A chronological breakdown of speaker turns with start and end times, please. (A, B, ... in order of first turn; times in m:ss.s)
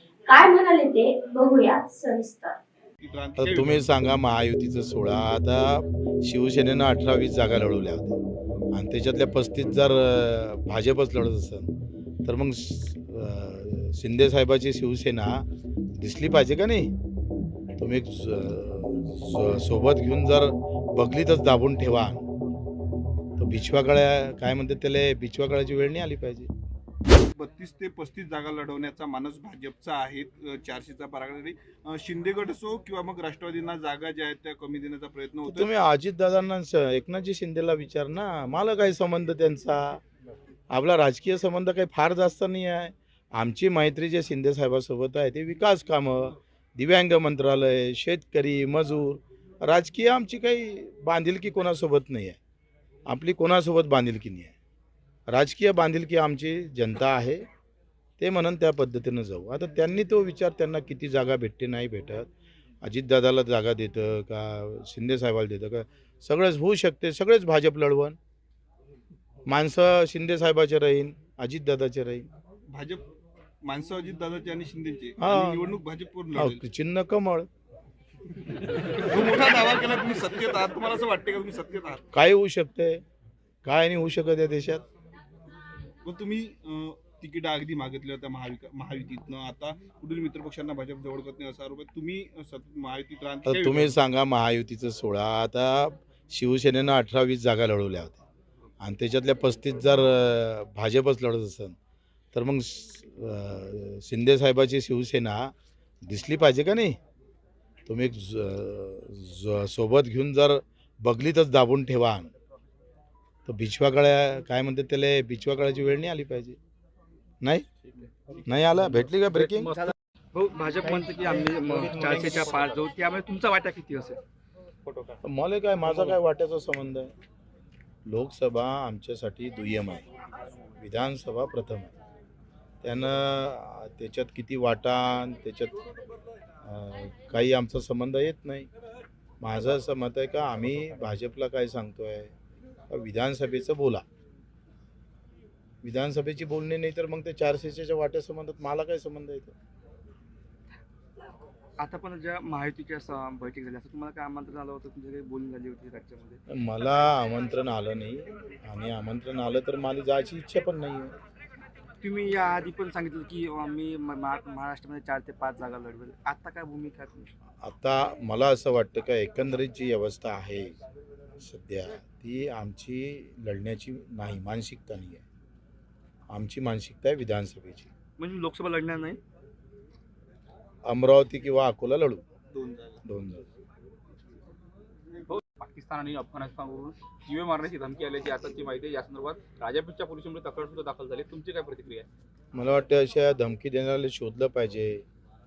0:00.3-0:02.6 A
0:03.0-0:03.8 B
0:03.4-0:08.2 C
0:08.8-0:11.7 C
0:12.2-0:15.4 C
0:16.0-0:16.9 C
0:17.8-0:22.2 C
0:23.4-0:26.5 C
0:27.3-0:35.7 B
0:35.5-0:40.0 C
0:40.7-0:52.4 C
0:53.1-0:54.5 C
0:55.3-0:57.4 C
0:58.2-1:02.3 C
1:02.8-1:08.2 C
1:09.5-1:12.3 C
1:12.7-1:13.1 B
1:13.6-1:16.6 B
1:15.2-1:15.7 C
1:16.4-1:17.5 C
1:19.1-1:22.0 B
1:22.1-1:23.0 C
1:23.6-1:24.8 C
1:26.0-1:34.0 B
1:33.5-1:38.2 C
1:38.8-1:41.8 C
1:42.3-1:45.5 C
1:46.0-1:47.0 C
1:47.9-1:52.3 C
1:53.5-1:56.6 C
1:57.4-1:57.7 C
1:58.5-1:59.7 C
2:00.3-2:04.2 D
2:05.2-2:07.1 C
2:08.1-2:10.1 C
2:10.8-2:11.9 C
2:12.8-2:15.8 C
2:16.6-2:18.7 C
2:19.4-2:22.3 C
2:22.9-2:24.0 C
2:25.8-2:29.6 C
2:31.8-2:36.4 D
2:36.5-2:41.2 C
2:42.0-2:47.3 D
2:47.6-2:50.8 C
2:51.4-2:55.2 C
2:56.3-2:57.9 C
2:58.2-2:59.2 D
3:00.8-3:02.2 C
3:02.5-3:03.0 B
3:03.0-3:03.5 C
3:05.3-3:12.1 E
3:12.5-3:15.0 C